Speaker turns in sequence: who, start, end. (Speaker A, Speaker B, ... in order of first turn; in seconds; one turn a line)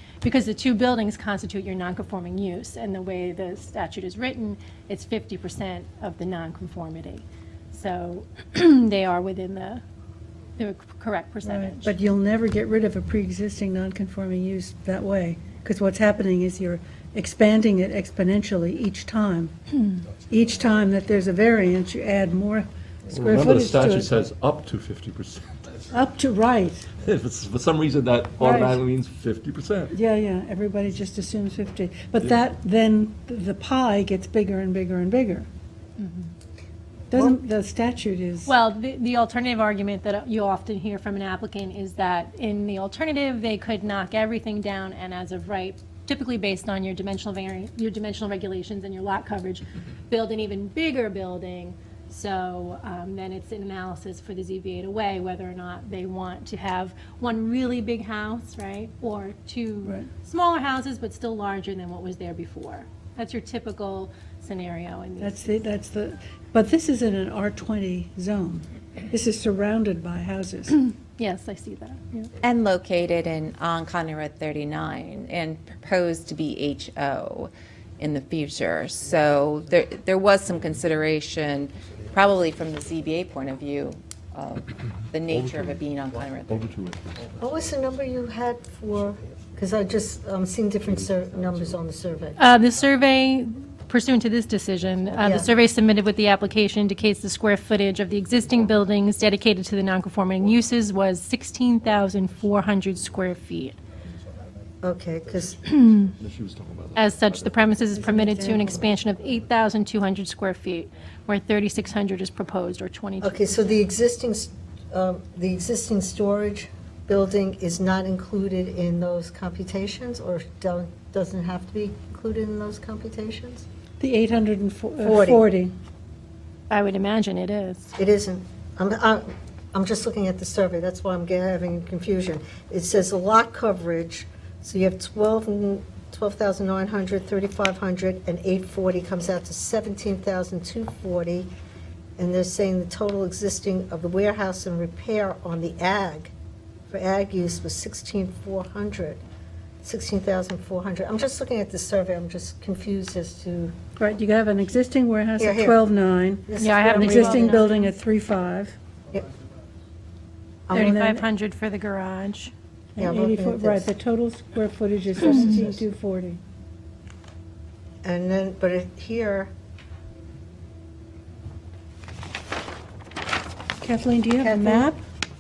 Speaker A: 0.2-9.8
Speaker A: 10.6-11.9
Speaker B: 11.4-24.1
Speaker C: 23.1-25.5
Speaker B: 25.9-26.9
Speaker C: 27.0-30.0
Speaker B: 28.4-28.8
Speaker B: 29.9-35.5
Speaker B: 37.1-38.5
Speaker A: 38.5-65.4
Speaker B: 65.2-70.8
Speaker A: 70.8-72.3
Speaker D: 72.4-86.6
Speaker C: 85.2-85.8
Speaker C: 86.5-87.3
Speaker E: 87.4-92.4
Speaker A: 92.4-103.8
Speaker E: 95.2-95.5
Speaker E: 104.8-105.6
Speaker A: 105.7-106.1
Speaker C: 106.2-107.6
Speaker A: 106.9-113.8
Speaker C: 108.5-108.8
Speaker E: 113.2-123.7
Speaker B: 124.0-125.7
Speaker E: 125.0-125.5
Speaker A: 126.7-127.9
Speaker E: 128.0-141.5
Speaker E: 142.2-146.3
Speaker E: 146.9-149.2
Speaker E: 149.8-153.7
Speaker B: 154.0-158.8
Speaker E: 155.4-155.8
Speaker E: 156.5-157.6
Speaker A: 156.6-157.9
Speaker E: 160.7-160.9
Speaker B: 160.7-161.3
Speaker A: 160.7-162.5
Speaker B: 162.9-166.4
Speaker E: 163.0-163.9
Speaker E: 168.0-169.5
Speaker B: 173.8-175.0
Speaker E: 174.4-174.9